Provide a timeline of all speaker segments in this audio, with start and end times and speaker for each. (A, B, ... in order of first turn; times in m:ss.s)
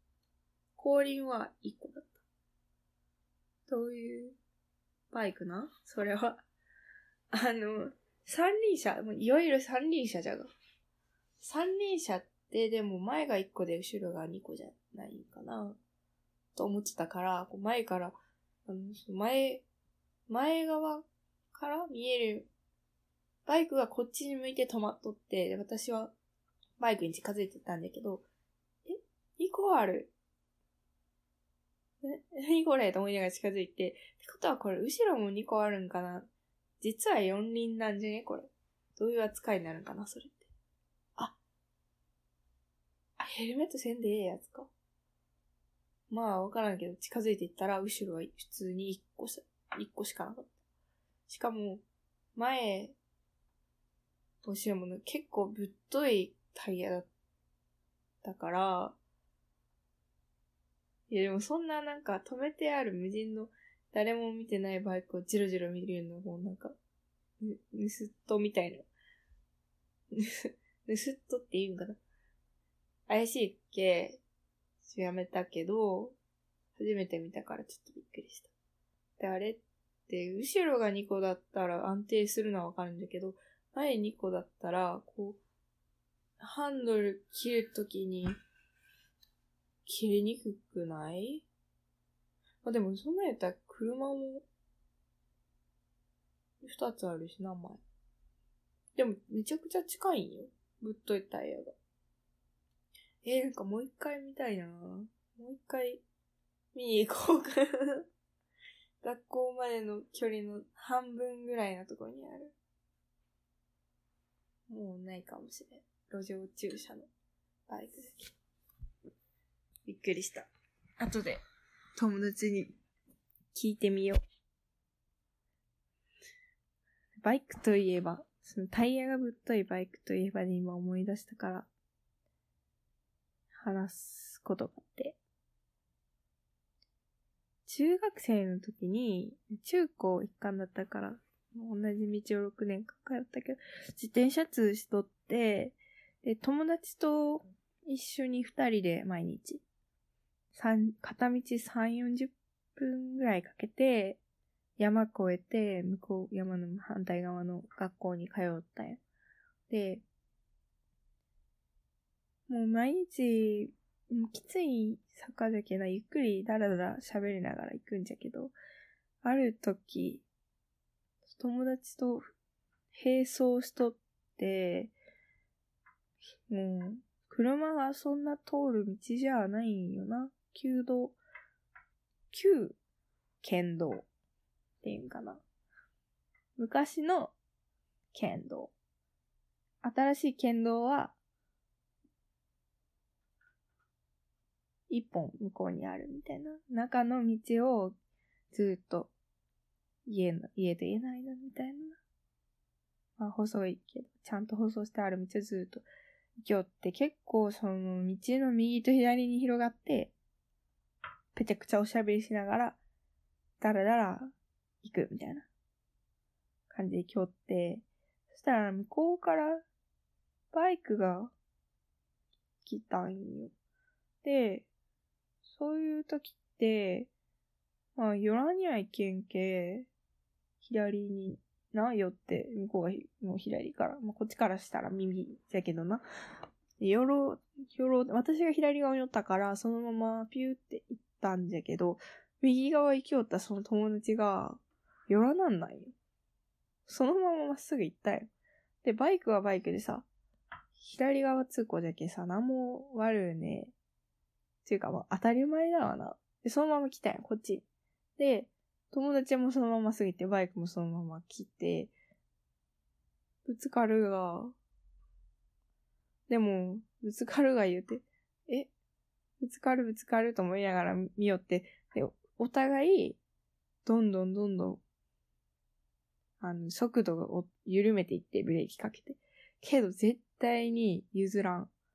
0:00.8-0:02.2 A
0:03.7-0:04.4 A
0:05.1-0:06.4 A
0:07.3-0:10.5 A
0:11.4-0:15.8 A
0:16.6-0:19.6 A
0:20.3-0:22.5 A
0:23.5-0:26.1 A
0:26.8-0:28.3 A
0:28.9-0:30.1 A
0:32.0-0:36.3 A
0:36.8-0:40.5 A
0:43.2-0:44.7 A
0:46.1-0:50.5 A
0:51.3-0:51.8 A
0:52.4-0:53.0 A
0:54.4-0:57.1 A
0:58.2-0:59.0 A
1:01.1-1:06.8 A
1:07.4-1:08.9 A
1:10.1-1:12.0 A
1:13.1-1:14.2 A
1:14.8-1:16.2 A
1:16.8-1:18.5 A
1:19.2-1:25.4 A
1:26.4-1:28.4 A
1:29.8-1:31.5 A
1:32.6-1:34.4 A
1:36.6-1:37.8 A
1:39.0-1:41.7 A
1:43.2-1:46.0 A
1:46.7-1:48.0 A
1:49.0-1:52.5 A
1:54.7-1:57.1 A
1:57.7-1:58.3 A
1:59.9-2:01.4 A
2:02.0-2:02.7 A
2:03.5-2:04.2 A
2:07.2-2:11.7 A
2:13.6-2:15.2 A
2:17.7-2:29.6 A
2:30.5-2:34.2 A
2:34.8-2:39.0 A
2:39.7-2:40.0 A
2:42.5-2:48.5 A
2:49.2-2:50.2 A
2:51.2-2:52.3 A
2:52.9-2:54.9 A
2:56.5-3:01.2 A
3:02.3-3:02.8 A
3:03.4-3:04.0 A
3:04.8-3:05.4 A
3:06.6-3:07.3 A
3:08.1-3:08.7 A
3:09.8-3:11.2 A
3:14.9-3:18.0 A
3:18.5-3:19.1 A
3:20.1-3:22.0 A
3:23.2-3:25.8 A
3:26.4-3:30.1 A
3:31.3-3:32.8 A
3:33.6-3:35.5 A
3:36.7-3:39.6 A
3:40.5-3:41.3 A
3:42.6-3:43.5 A
3:44.2-3:44.7 A
3:45.5-3:47.1 A
3:48.0-3:49.9 A
3:50.6-3:56.0 A
3:56.8-4:05.9 A
4:06.9-4:08.3 A
4:08.8-4:10.1 A
4:10.8-4:13.7 A
4:14.6-4:17.6 A
4:18.2-4:21.9 A
4:23.5-4:24.6 A
4:26.3-4:28.7 A
4:29.4-4:33.2 A
4:33.8-4:34.8 A
4:36.4-4:41.7 A